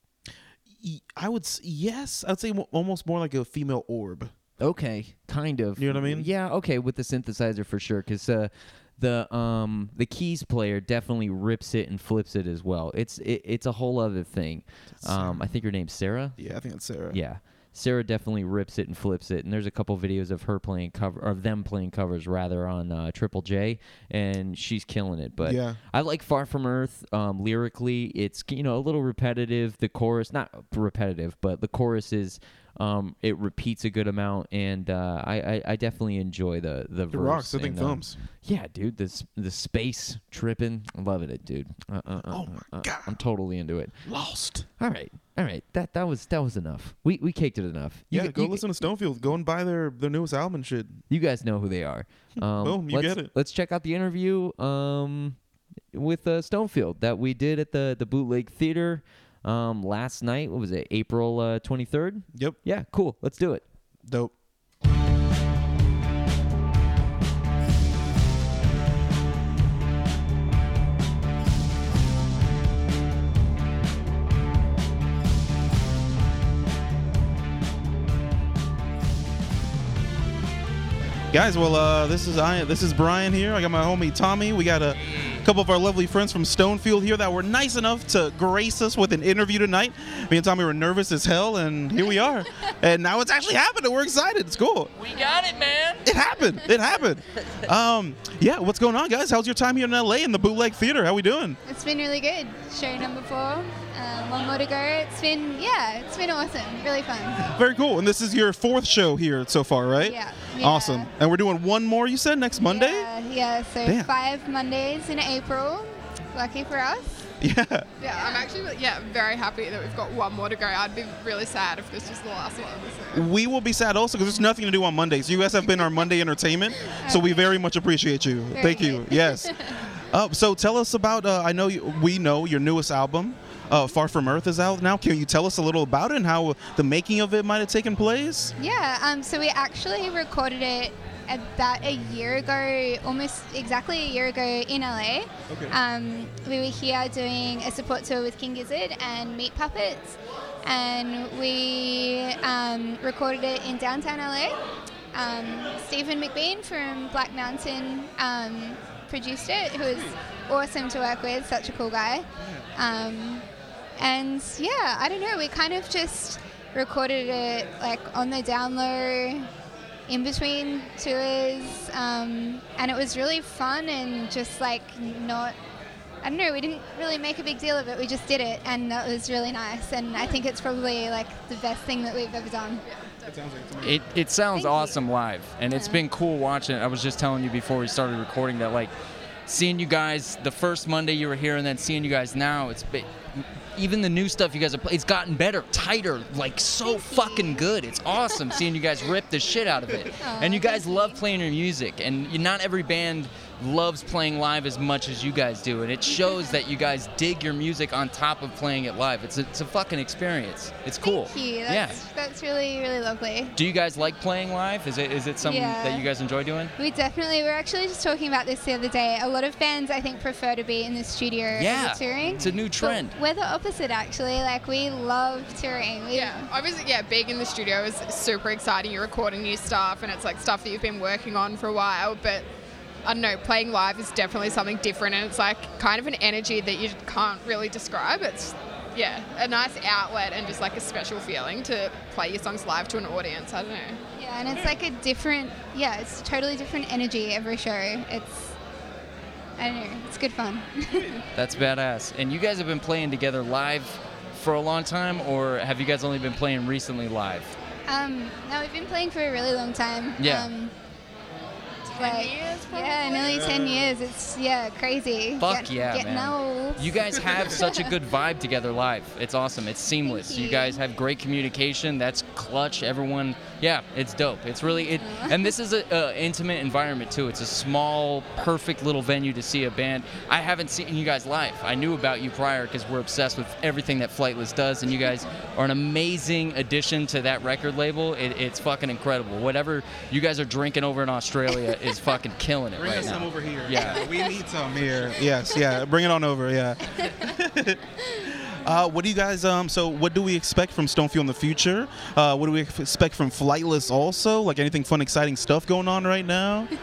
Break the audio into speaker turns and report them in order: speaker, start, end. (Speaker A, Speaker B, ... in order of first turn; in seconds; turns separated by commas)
Speaker A: 0.8-4.3, Speaker B: 4.6-16.4, Speaker A: 5.8-6.3, Speaker A: 15.0-15.4, Speaker A: 16.4-17.2, Speaker B: 17.1-44.0, Speaker A: 25.4-25.8, Speaker A: 37.1-38.2, Speaker A: 42.3-43.2, Speaker A: 44.0-44.7, Speaker B: 44.8-48.6, Speaker A: 48.1-51.0, Speaker B: 51.1-55.4, Speaker A: 52.4-53.3, Speaker B: 55.9-63.6, Speaker A: 64.0-64.3, Speaker A: 81.3-94.9, Speaker C: 95.0-96.0, Speaker A: 96.0-101.6, Speaker D: 101.7-107.4, Speaker A: 107.4-113.1, Speaker D: 110.0-111.1, Speaker D: 112.6-117.2, Speaker A: 113.8-114.1, Speaker A: 117.4-117.9, Speaker E: 118.0-123.2, Speaker D: 118.1-118.5, Speaker A: 123.1-138.5, Speaker D: 127.0-127.4, Speaker D: 128.5-129.8, Speaker D: 138.6-154.6, Speaker A: 145.5-145.8, Speaker D: 155.1-163.4, Speaker D: 164.0-169.5, Speaker D: 170.1-175.6, Speaker D: 176.2-182.8, Speaker E: 182.8-183.5, Speaker A: 183.3-184.0, Speaker C: 183.8-188.9, Speaker D: 184.5-185.0, Speaker D: 185.7-186.0, Speaker C: 189.5-193.1, Speaker C: 193.8-212.0, Speaker D: 196.8-197.7, Speaker D: 198.4-198.6, Speaker D: 200.2-201.2, Speaker D: 206.1-206.6, Speaker D: 211.0-213.5, Speaker C: 213.6-216.7, Speaker D: 215.4-216.1, Speaker D: 216.8-226.5, Speaker C: 221.5-223.1, Speaker A: 222.2-222.6, Speaker E: 226.1-232.4, Speaker E: 233.0-244.0, Speaker D: 244.2-248.5, Speaker D: 249.6-251.2, Speaker C: 251.3-257.5, Speaker D: 257.9-260.7, Speaker C: 260.2-260.5, Speaker E: 262.0-263.5, Speaker D: 262.0-267.9, Speaker A: 263.2-263.9, Speaker C: 265.4-294.0, Speaker B: 267.1-267.9, Speaker D: 270.0-270.8, Speaker D: 274.7-275.5, Speaker A: 292.8-306.7, Speaker B: 292.8-293.3, Speaker D: 293.7-294.4